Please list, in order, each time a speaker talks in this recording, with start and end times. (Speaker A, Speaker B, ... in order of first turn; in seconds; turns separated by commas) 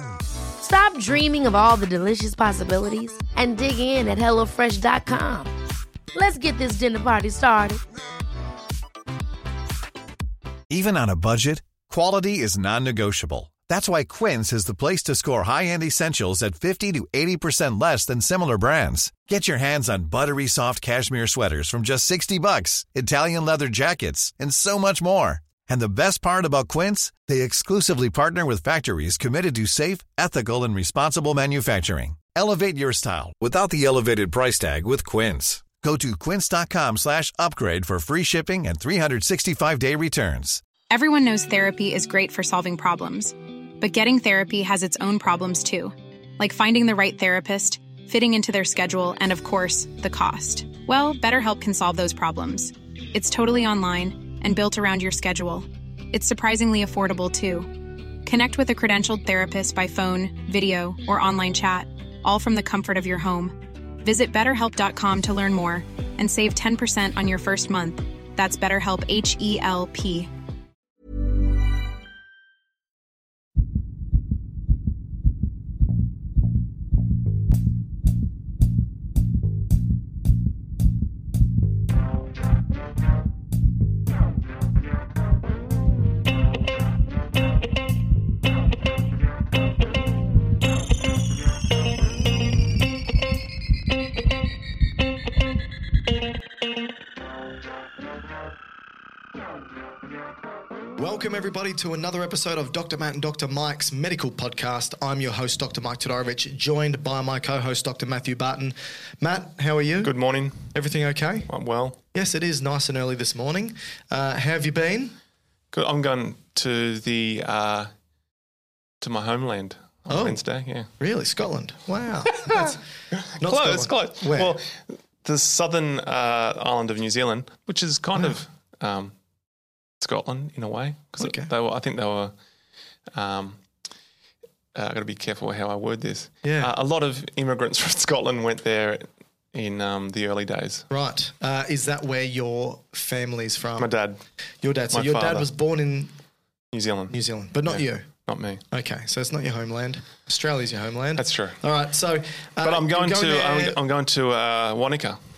Speaker A: 0.6-5.5, Speaker A: 6.1-7.8, Speaker B: 10.7-40.6, Speaker C: 40.9-57.7, Speaker C: 58.2-70.3, Speaker D: 101.0-110.1, Speaker E: 110.0-110.7, Speaker D: 110.7-111.5, Speaker E: 111.5-112.0, Speaker D: 112.1-115.1, Speaker E: 115.7-117.9, Speaker E: 119.0-120.9, Speaker D: 120.1-122.8, Speaker E: 122.2-129.1, Speaker D: 123.4-124.5, Speaker E: 130.0-132.3, Speaker D: 131.2-131.5, Speaker E: 133.1-133.6, Speaker E: 134.7-140.9, Speaker D: 136.4-136.7, Speaker D: 140.9-143.9, Speaker E: 143.8-144.2, Speaker D: 144.6-146.1, Speaker E: 144.9-145.5, Speaker E: 146.7-148.6, Speaker D: 147.1-148.1, Speaker D: 148.7-153.8, Speaker E: 151.2-151.6, Speaker E: 152.6-155.2